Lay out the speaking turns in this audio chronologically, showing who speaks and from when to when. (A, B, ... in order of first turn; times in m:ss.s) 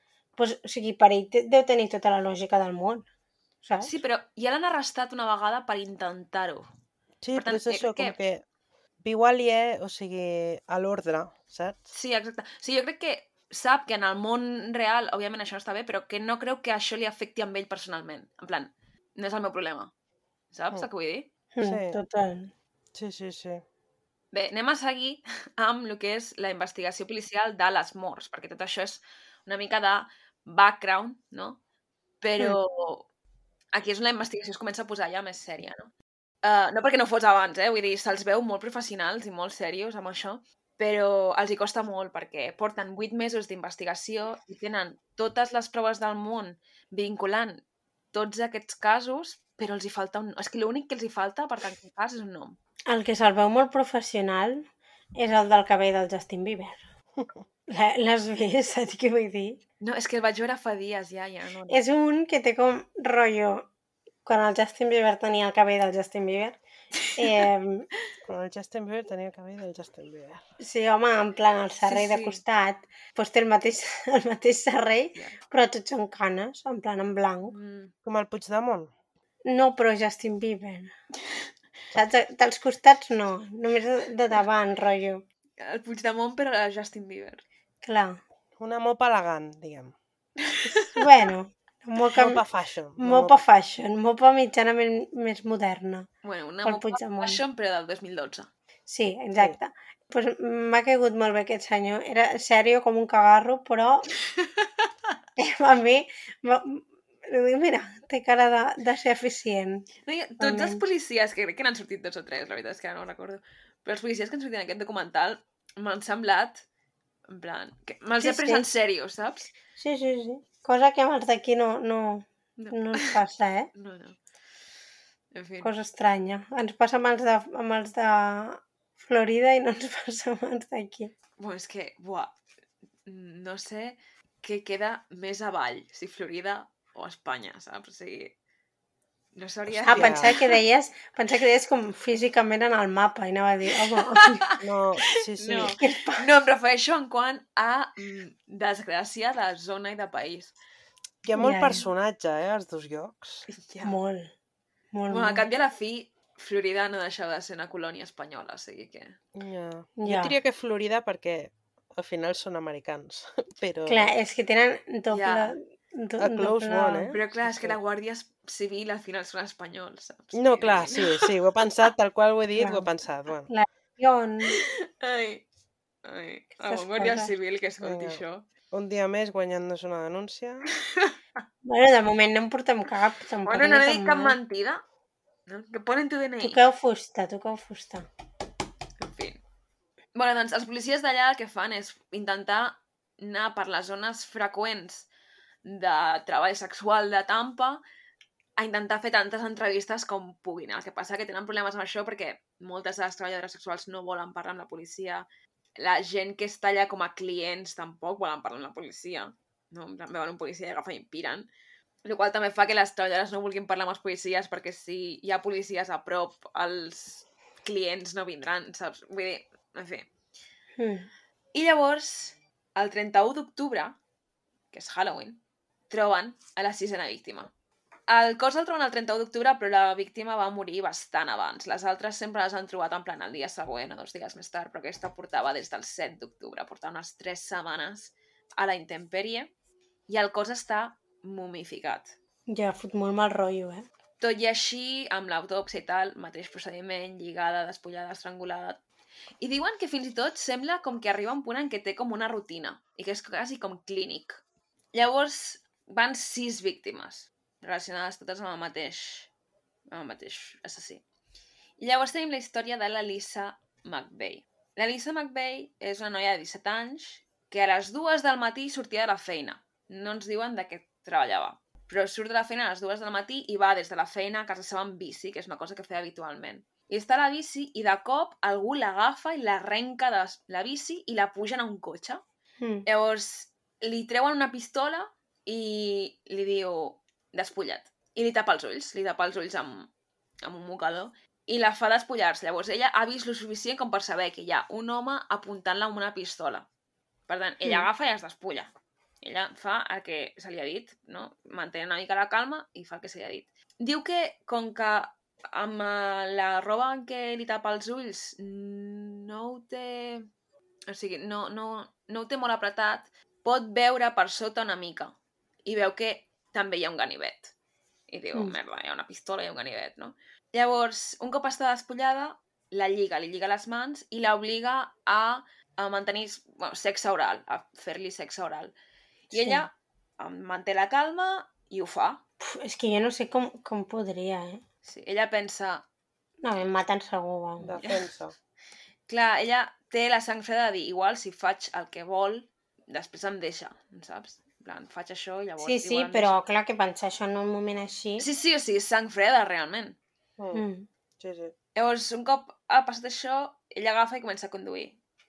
0:00.4-0:03.1 A
0:03.6-0:04.0 A
0:03.8-0:06.7 B
0:07.2-0:08.4 C
0:07.4-0:08.2 B
0:09.0-0:11.9 C
0:11.9-0:19.9 B
0:20.5-0:21.3 B
0:21.6-0:22.5 A
0:21.6-0:22.0 C
0:22.9-0:23.6 C
0:24.3-0:31.6 B
0:32.2-0:33.1 B
0:33.7-0:35.9 B
0:36.4-0:52.6 B
0:52.9-0:56.8 A
0:57.7-0:59.6 A
0:59.8-1:01.8 B
1:01.7-1:03.7 A
1:04.3-1:06.6 A
1:07.0-1:07.4 B
1:07.2-1:07.9 A
1:08.3-1:10.4 C
1:10.6-1:17.5 A
1:11.8-1:12.4 B
1:17.5-1:17.9 B
1:18.0-1:18.9 C
1:19.5-1:20.9 A
1:21.9-1:25.2 A
1:25.6-1:27.4 B
1:27.8-1:28.2 A
1:28.6-1:29.9 C
1:30.5-1:30.9 B
1:31.0-1:32.4 A
1:32.1-1:33.4 C
1:33.0-1:36.1 A
1:36.2-1:38.5 B
1:36.6-1:37.4 A
1:38.9-1:44.1 A
1:45.4-1:49.9 A
1:50.0-1:56.6 B
1:50.4-1:50.8 A
1:57.3-1:59.5 B
1:58.2-1:58.6 A
1:59.8-2:03.7 A
2:02.6-2:03.2 B
2:03.8-2:04.2 B
2:05.3-2:05.7 B
2:05.6-2:11.1 A
2:11.4-2:12.3 B
2:13.1-2:18.3 B
2:19.4-2:20.6 B
2:19.8-2:24.4 A
2:19.9-2:20.3 C
2:24.1-2:24.6 B
2:24.6-2:25.7 C
2:25.4-2:30.5 B
2:25.5-2:26.3 A
2:31.2-2:33.5 C
2:31.4-2:31.9 A
2:33.5-2:34.0 B
2:33.8-2:34.3 A
2:34.9-2:35.4 A
2:35.1-2:39.2 B
2:39.4-2:44.1 C
2:40.0-2:40.4 A
2:43.9-2:47.1 A
2:45.1-2:45.6 B
2:46.2-2:47.8 C
2:47.1-2:51.3 B
2:50.3-2:53.5 C
2:52.6-2:52.9 A
2:53.5-2:54.6 A
2:54.5-2:55.4 B
2:56.0-2:58.5 B
2:56.6-2:57.3 A
2:57.8-3:00.7 C
3:00.9-3:01.2 B
3:01.6-3:04.4 A
3:03.5-3:04.8 B
3:05.5-3:06.6 B
3:06.4-3:08.1 A
3:09.0-3:09.4 B
3:10.2-3:15.1 B
3:15.6-3:17.8 B
3:18.6-3:31.5 B
3:32.0-3:40.1 B
3:40.8-3:41.1 A
3:41.5-3:44.0 B
3:44.7-3:47.5 B
3:48.1-3:59.5 B
4:00.1-4:02.1 B
4:02.5-4:03.8 A
4:04.2-4:08.8 B
4:09.4-4:14.4 B
4:14.9-4:19.3 B
4:19.9-4:21.0 B
4:21.8-4:42.2 B
4:42.6-4:42.8 A
4:42.9-4:49.9 B
4:50.4-4:56.7 B
4:57.3-5:10.3 B
4:57.6-4:57.9 A
5:10.9-5:15.2 B
5:15.7-5:17.5 B
5:18.1-5:28.8 B
5:29.3-5:32.2 B
5:29.3-5:29.7 A
5:32.4-5:34.6 A
5:34.8-5:35.8 B
5:36.4-5:37.8 A
5:37.6-5:38.4 C
5:39.1-5:46.4 B
5:45.6-5:48.3 A
5:48.2-5:50.0 B
5:50.4-5:50.6 C
5:50.5-5:50.9 A
5:51.2-5:51.5 C
5:51.8-5:55.0 B